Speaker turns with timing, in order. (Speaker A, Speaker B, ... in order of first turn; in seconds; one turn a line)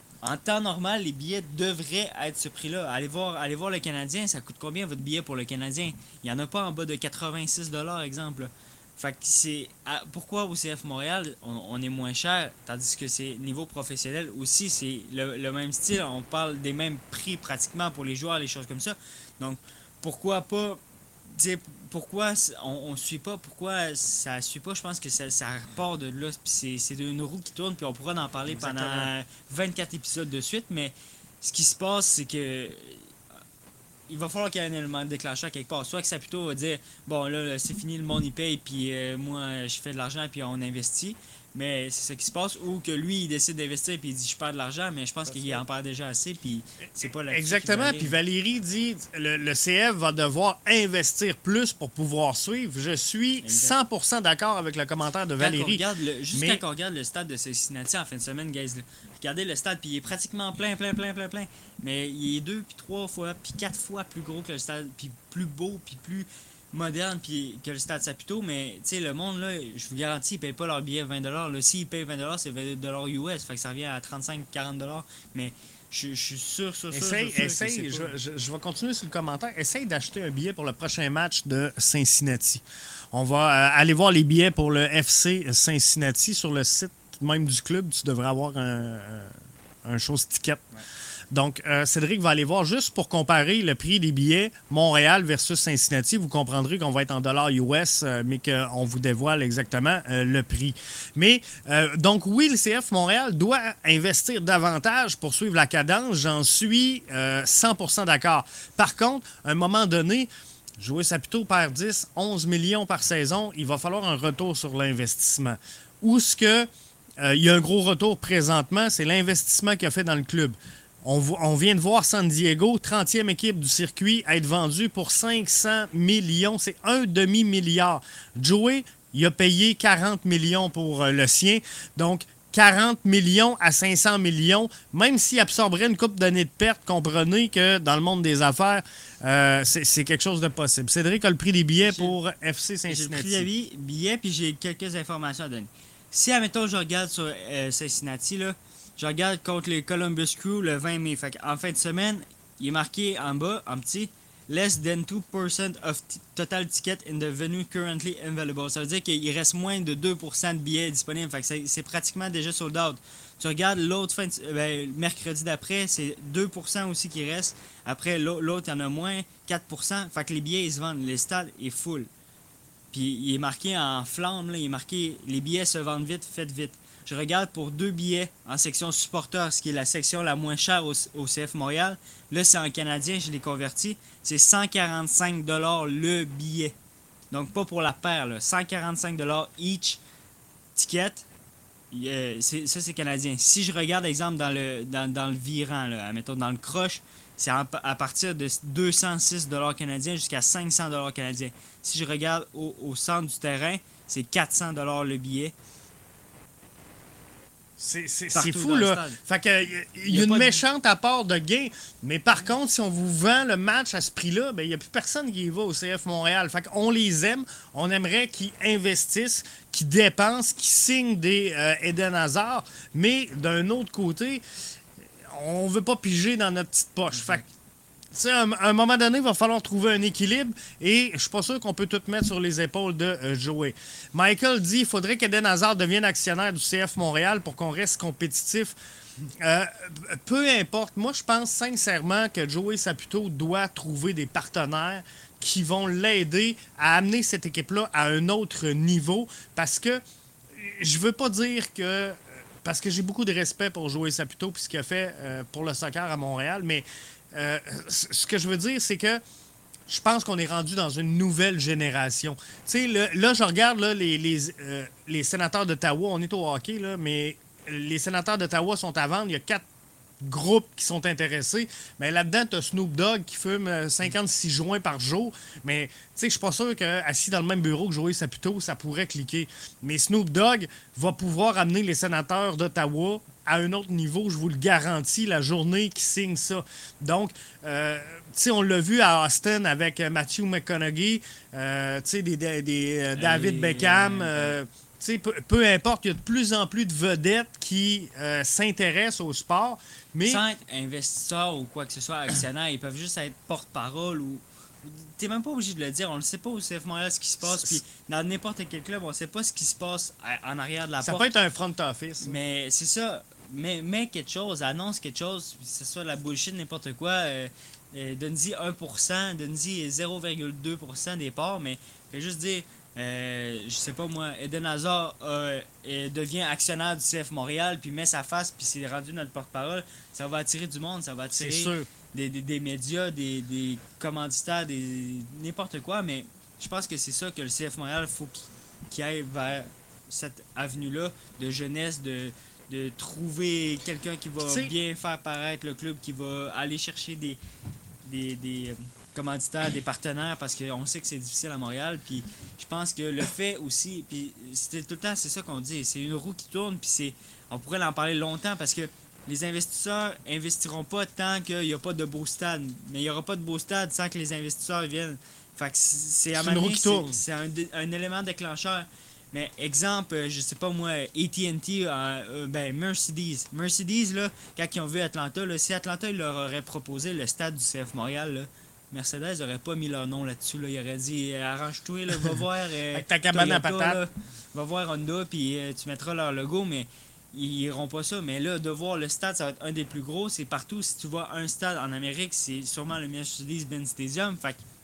Speaker A: 0.2-33.1
Speaker B: 28.5-29.1
Speaker A: 34.1-48.2
Speaker B: 45.3-45.6
Speaker B: 47.3-56.6
Speaker A: 53.4-53.8
Speaker A: 55.4-78.1
Speaker B: 76.9-89.3
Speaker B: 89.8-90.6
Speaker B: 91.3-116.7
Speaker B: 117.2-143.5
Speaker A: 141.8-142.2
Speaker A: 142.9-172.1
Speaker A: 172.9-186.8
Speaker A: 187.3-190.0
Speaker A: 190.8-191.3
Speaker A: 191.9-205.5
Speaker B: 207.8-224.4
Speaker A: 208.3-209.2
Speaker A: 210.1-210.6
Speaker B: 225.3-227.5
Speaker A: 227.1-227.5
Speaker B: 228.1-238.8
Speaker B: 239.4-250.0
Speaker B: 250.6-259.2
Speaker B: 259.9-269.6
Speaker B: 270.2-300.4
Speaker A: 293.2-294.6
Speaker A: 300.2-311.3
Speaker B: 307.4-307.8
Speaker B: 311.0-312.4
Speaker A: 312.2-347.4
Speaker B: 331.3-331.9
Speaker B: 344.5-344.7
Speaker A: 348.0-394.6
Speaker B: 366.3-367.2
Speaker B: 382.9-384.0